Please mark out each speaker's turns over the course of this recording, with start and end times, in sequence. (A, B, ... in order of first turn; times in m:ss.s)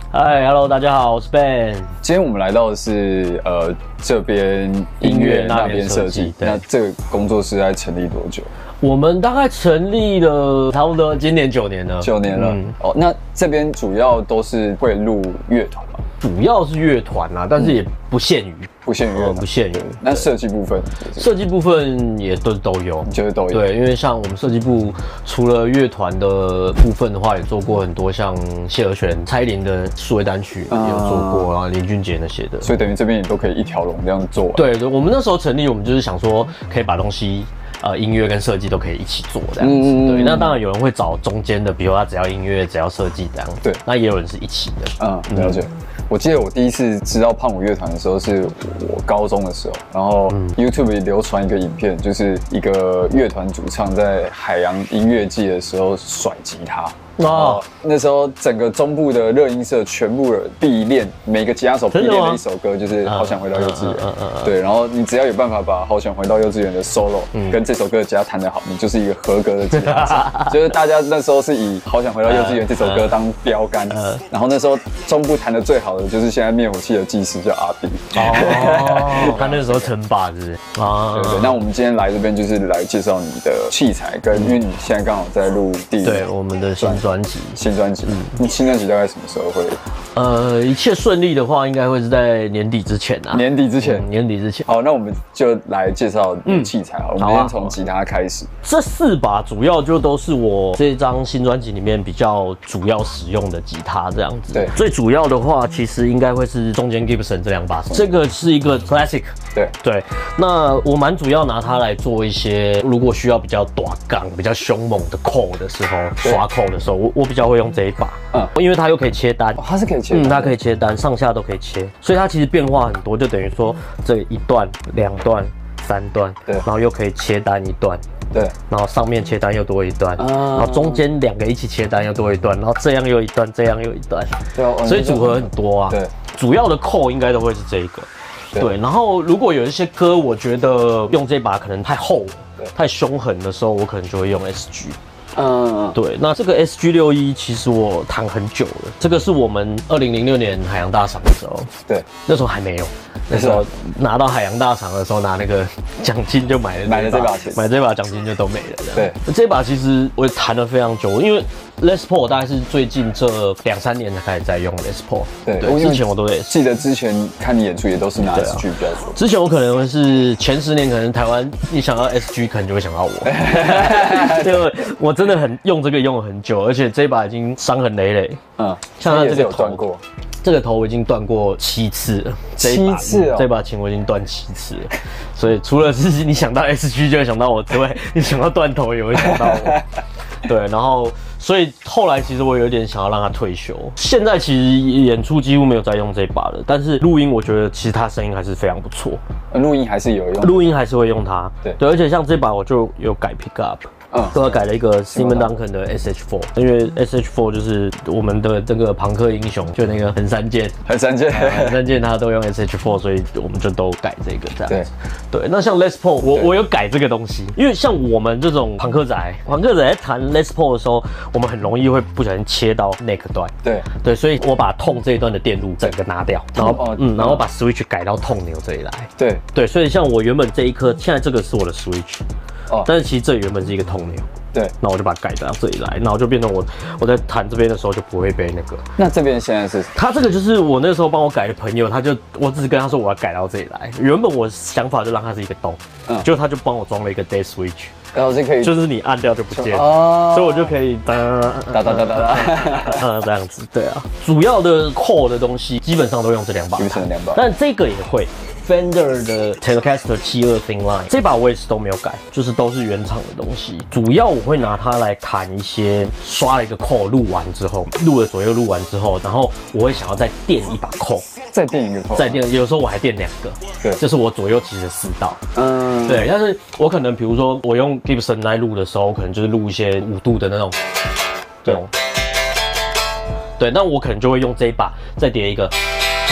0:00.1-0:02.0 A
0:02.0-0:08.5 B
0:05.0-0:06.6 A
0:08.8-0:12.8 A
0:12.0-0:16.0 B
0:16.2-0:20.3 A
0:18.8-0:21.3 B
0:21.2-0:32.7 A
0:23.1-0:23.7 B
0:30.7-0:31.5 B
0:32.6-0:34.7 B
0:34.5-0:45.6 A
0:39.6-0:40.6 B
0:45.0-1:19.9 B
0:50.3-0:50.6 A
0:57.2-0:57.6 A
1:01.9-1:02.4 A
1:03.0-1:04.6 A
1:07.3-1:07.6 A
1:09.7-1:10.7 A
1:12.2-1:13.2 A
1:13.9-1:14.2 A
1:18.1-1:21.6 A
1:21.1-1:26.2 B
1:26.0-1:28.4 A
1:26.8-1:29.8 B
1:30.2-1:34.7 A
1:33.3-1:34.1 B
1:34.7-1:38.5 B
1:36.5-1:37.8 A
1:38.6-2:08.0 A
1:59.6-2:00.6 B
2:08.7-2:25.0 A
2:10.2-2:11.0 B
2:14.6-2:16.1 B
2:25.4-2:26.0 B
2:25.9-2:31.7 A
2:32.3-2:46.6 A
2:33.3-2:33.7 B
2:36.8-2:37.7 B
2:45.4-2:49.2 B
2:48.2-2:58.4 A
2:53.3-2:54.7 B
2:58.6-3:00.0 B
2:59.0-2:59.9 A
3:00.4-3:09.8 A
3:02.6-3:03.5 B
3:09.4-3:09.7 B
3:10.4-3:19.2 A
3:19.5-3:20.7 B
3:20.4-3:30.8 A
3:24.1-3:25.5 B
3:30.8-3:31.8 B
3:31.3-3:52.2 A
3:36.2-3:36.5 B
3:46.6-3:47.5 B
3:49.2-3:49.4 B
3:52.8-3:58.9 A
3:59.0-3:59.9 B
3:59.9-4:08.0 A
4:08.1-4:08.8 B
4:08.6-4:31.3 A
4:09.5-4:10.7 B
4:11.7-4:13.0 B
4:16.8-4:17.4 B
4:31.5-4:32.4 B
4:32.2-4:35.4 A
4:35.5-4:36.3 B
4:36.0-4:40.8 A
4:41.6-4:41.9 A
4:43.6-4:45.8 A